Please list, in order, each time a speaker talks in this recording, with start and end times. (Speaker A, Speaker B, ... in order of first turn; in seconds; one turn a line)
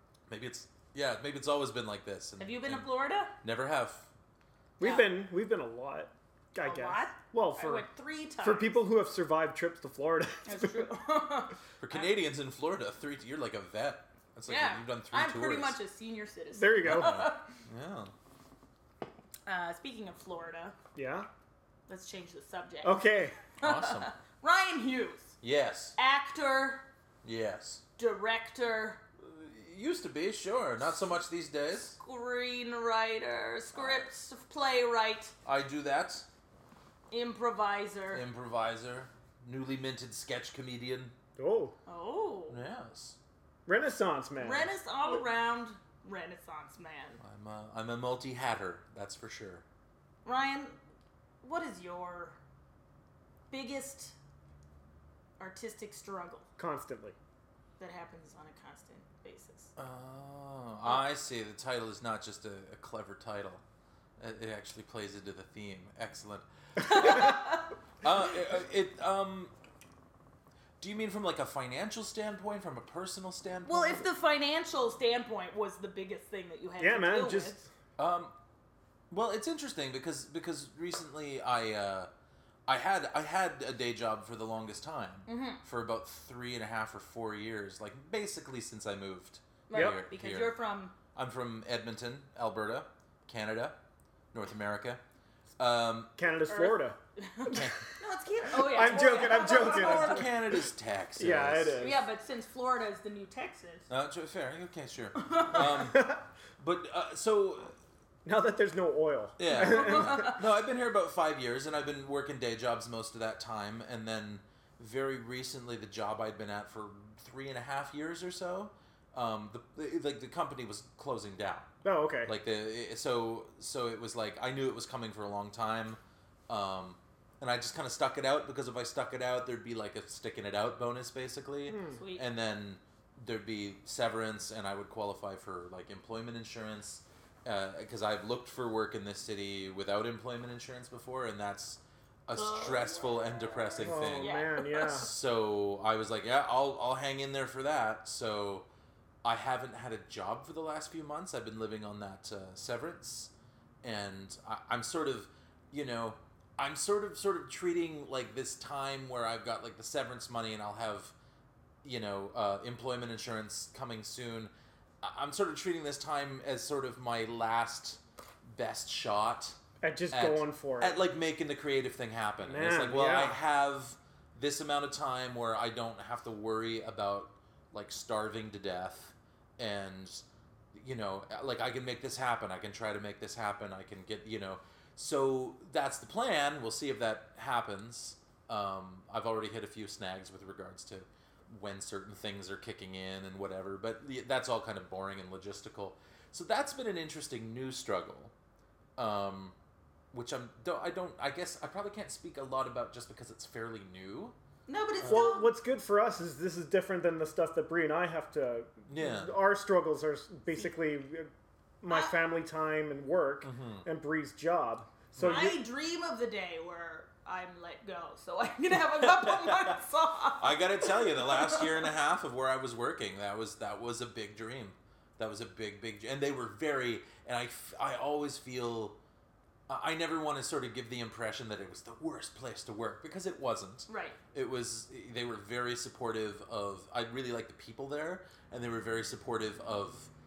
Speaker A: 0.3-2.9
Speaker B: 2.4-3.3
Speaker A: 3.4-4.1
Speaker C: 4.8-7.9
Speaker B: 4.8-5.1
Speaker B: 6.6-8.8
Speaker C: 8.4-10.9
Speaker B: 10.4-12.1
Speaker A: 11.8-15.8
Speaker B: 14.5-17.5
Speaker C: 16.5-17.3
Speaker A: 16.8-18.1
Speaker B: 19.5-20.7
Speaker C: 20.9-21.3
Speaker B: 21.9-23.0
Speaker C: 22.8-23.4
Speaker B: 23.6-25.4
Speaker A: 23.6-24.1
Speaker A: 25.4-25.9
Speaker B: 25.9-26.9
Speaker A: 27.2-27.8
Speaker B: 28.0-29.0
Speaker A: 29.2-32.0
Speaker B: 32.0-35.3
Speaker A: 33.7-34.1
Speaker A: 35.4-36.3
Speaker B: 37.1-38.2
Speaker A: 38.1-41.1
Speaker C: 41.4-41.8
Speaker B: 41.9-42.6
Speaker A: 42.5-43.2
Speaker C: 43.6-44.7
Speaker B: 44.4-47.2
Speaker A: 47.2-49.6
Speaker B: 50.2-50.8
Speaker B: 51.4-52.4
Speaker B: 53.5-54.1
Speaker B: 55.4-56.5
Speaker C: 56.6-57.1
Speaker B: 57.8-59.7
Speaker A: 59.8-63.6
Speaker A: 64.2-69.5
Speaker B: 66.8-67.7
Speaker A: 70.8-74.1
Speaker B: 73.6-77.5
Speaker C: 76.8-77.7
Speaker A: 78.0-78.3
Speaker A: 79.1-82.1
Speaker A: 82.7-90.6
Speaker B: 85.3-85.6
Speaker B: 89.7-90.9
Speaker C: 89.7-90.0
Speaker A: 91.1-93.8
Speaker A: 94.3-95.0
Speaker A: 95.6-96.1
Speaker C: 96.2-97.0
Speaker B: 96.5-100.3
Speaker A: 97.5-97.8
Speaker C: 98.5-100.4
Speaker A: 98.9-101.8
Speaker C: 101.2-102.0
Speaker B: 101.8-103.9
Speaker A: 103.9-107.7
Speaker B: 105.2-105.7
Speaker C: 105.5-106.2
Speaker C: 108.2-110.4
Speaker A: 109.4-121.7
Speaker B: 109.5-110.4
Speaker C: 121.8-122.3
Speaker A: 122.2-148.7
Speaker C: 131.7-132.0
Speaker B: 131.9-132.2
Speaker B: 142.3-145.1
Speaker C: 143.8-145.1
Speaker A: 149.2-153.3
Speaker A: 153.8-161.1
Speaker A: 161.8-168.0
Speaker A: 168.5-169.6
Speaker C: 169.8-171.0
Speaker A: 170.1-180.2
Speaker C: 172.4-173.4
Speaker A: 180.7-198.3
Speaker A: 199.0-199.5
Speaker A: 200.1-204.3
Speaker B: 204.7-205.5
Speaker C: 205.0-211.3
Speaker A: 205.0-205.3
Speaker A: 208.9-209.3
Speaker C: 211.8-215.6
Speaker B: 211.9-212.2
Speaker A: 213.4-213.8
Speaker A: 215.2-215.5
Speaker B: 215.2-221.9
Speaker A: 219.1-219.7
Speaker A: 220.4-229.0
Speaker A: 229.7-240.1
Speaker B: 233.9-234.2